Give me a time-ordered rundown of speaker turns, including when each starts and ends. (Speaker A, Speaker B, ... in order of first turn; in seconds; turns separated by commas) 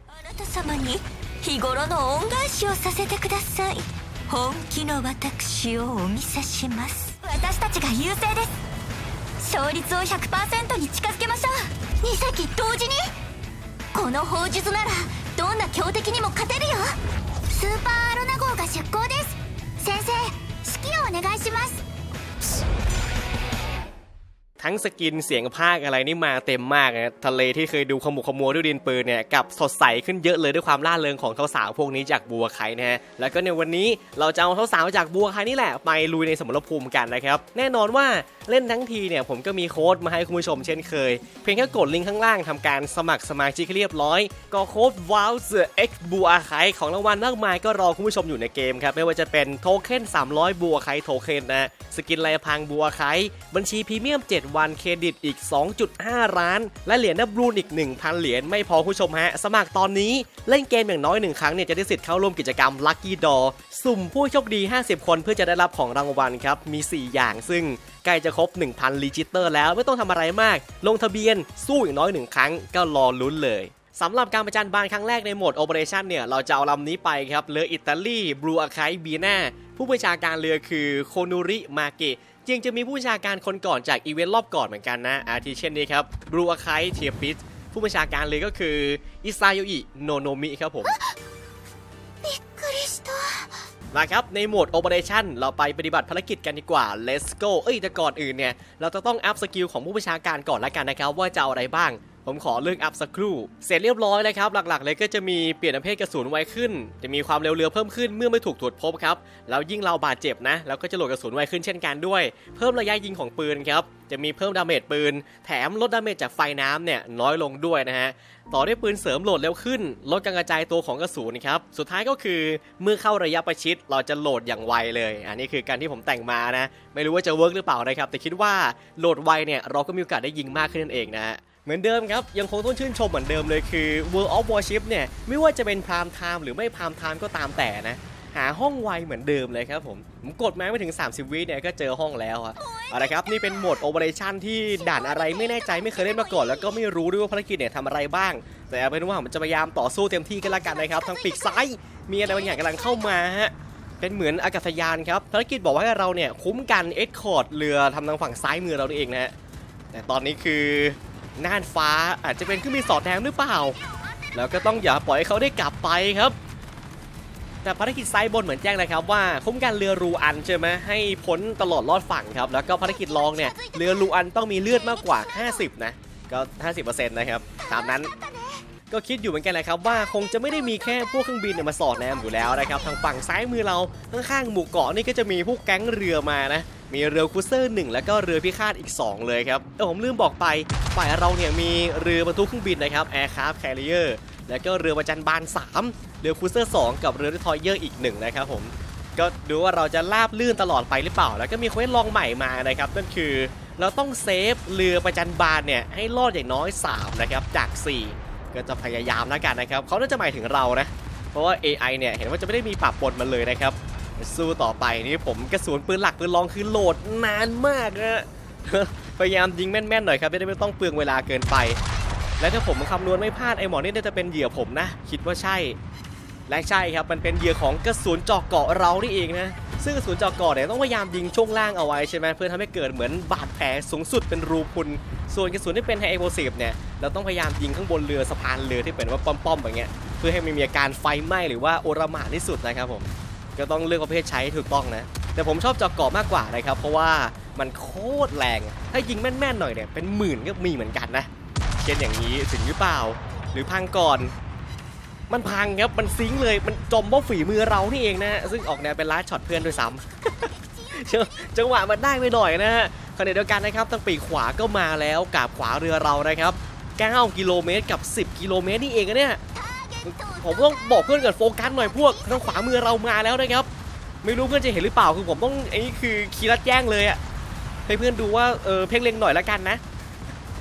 Speaker A: 0.1-8.6, Speaker A: 9.4-13.2, Speaker A: 13.9-17.0, Speaker A: 17.5-21.8, Speaker B: 24.6-90.9, Speaker A: 90.8-91.2, Speaker A: 92.2-93.7, Speaker B: 93.9-159.3, Speaker A: 142.6-143.8, Speaker A: 144.7-146.8, Speaker A: 150.4-151.6, Speaker A: 152.2-153.2, Speaker B: 159.9-163.8, Speaker A: 163.8-164.8, Speaker B: 164.3-166.3, Speaker B: 167.6-178.1, Speaker A: 172.8-174.1, Speaker A: 174.6-175.7, Speaker A: 177.7-178.7, Speaker B: 178.9-221.8, Speaker A: 180.3-180.9, Speaker A: 181.7-182.9, Speaker B: 222.4-225.8, Speaker B: 226.5-251.3, Speaker A: 230.8-231.6, Speaker B: 251.8-254.3, Speaker A: 253.5-253.8, Speaker B: 255.3-269.4, Speaker A: 259.5-261.4, Speaker A: 269.5-272.8, Speaker B: 270.0-273.7, Speaker B: 274.2-277.2, Speaker B: 277.9-279.8